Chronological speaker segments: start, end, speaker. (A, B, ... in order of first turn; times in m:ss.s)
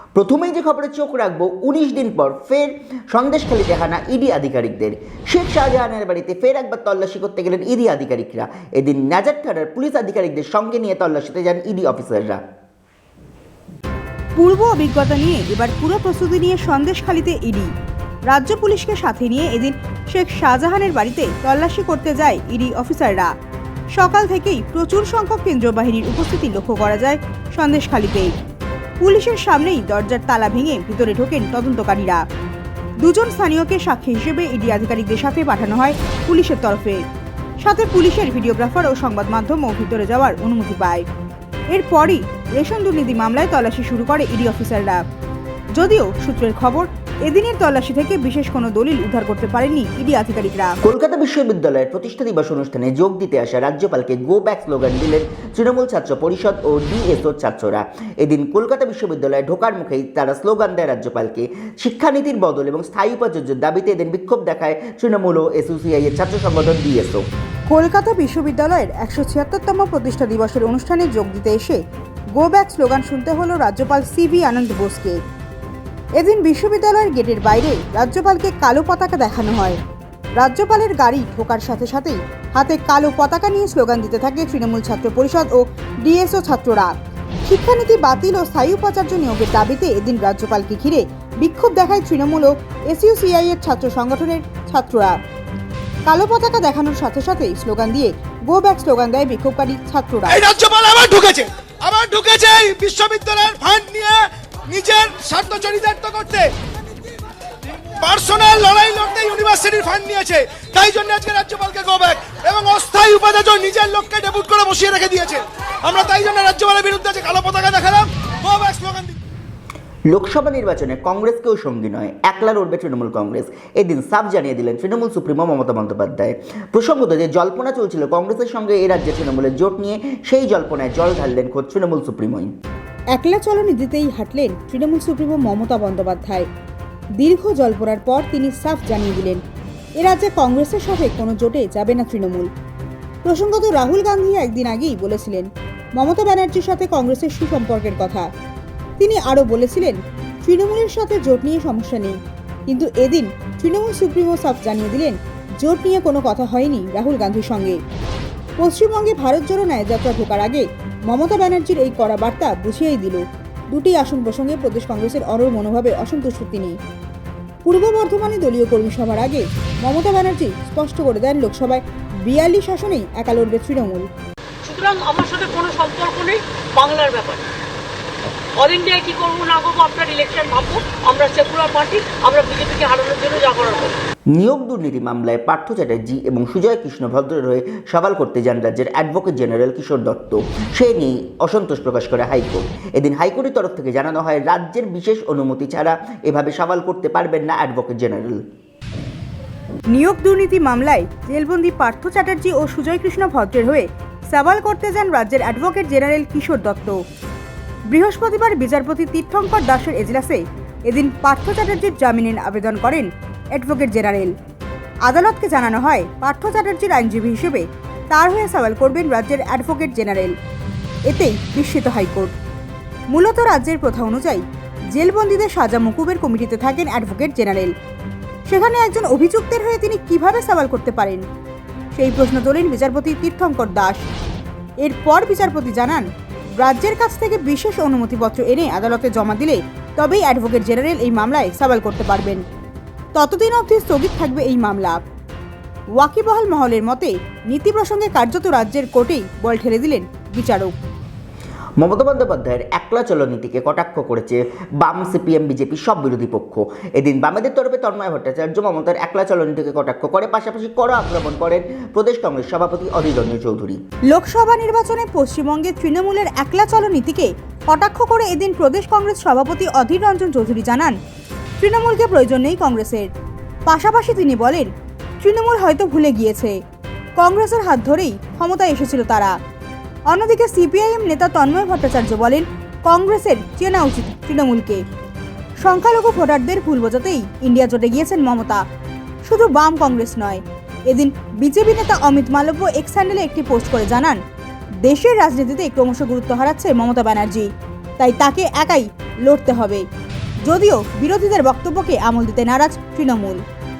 0:00.1-0:12.4 A
0:14.4-0:17.7 B
0:18.3-0:23.3 B
0:23.9-0:28.3 B
0:29.0-0:32.2 B
0:33.0-0:37.0 B
0:37.6-0:41.0 B
0:41.7-0:45.0 B
0:45.8-0:50.8 B
0:50.8-1:07.2 A
1:07.7-1:11.8 B
1:12.4-1:15.2 B
1:16.2-1:19.8 B
1:20.4-1:26.9 B
1:27.5-1:35.2 B
1:36.0-1:40.4 B
1:40.3-1:46.5 C
1:48.0-1:59.2 C
2:00.1-2:12.5 A
2:13.1-2:16.5 B
2:17.2-2:19.4 B
2:20.0-2:22.5 B
2:23.2-2:28.3 B
2:29.0-2:32.2 B
2:32.7-2:37.8 B
2:38.6-2:46.8 B
2:47.6-2:54.1 B
2:54.6-2:57.4 D
2:58.6-3:03.9 D
3:04.3-3:18.4 A
3:19.9-3:27.0 B
3:27.9-3:34.3 B
3:35.0-3:40.3 B
3:41.1-3:42.3 B
3:43.1-3:47.7 B
3:48.4-3:51.2 B
3:51.9-3:54.0 B
3:54.8-3:56.0 B
3:56.6-4:02.4 B
4:03.1-4:05.0 B
4:06.0-4:10.7 B
4:11.8-4:23.8 A
4:24.1-4:31.0 B
4:31.6-4:33.1 B
4:33.6-4:36.6 B
4:37.2-4:39.3 B
4:40.1-4:44.8 B
4:45.6-4:48.6 B
4:49.2-4:54.2 B
4:54.8-4:59.8 B
5:00.5-5:03.4 B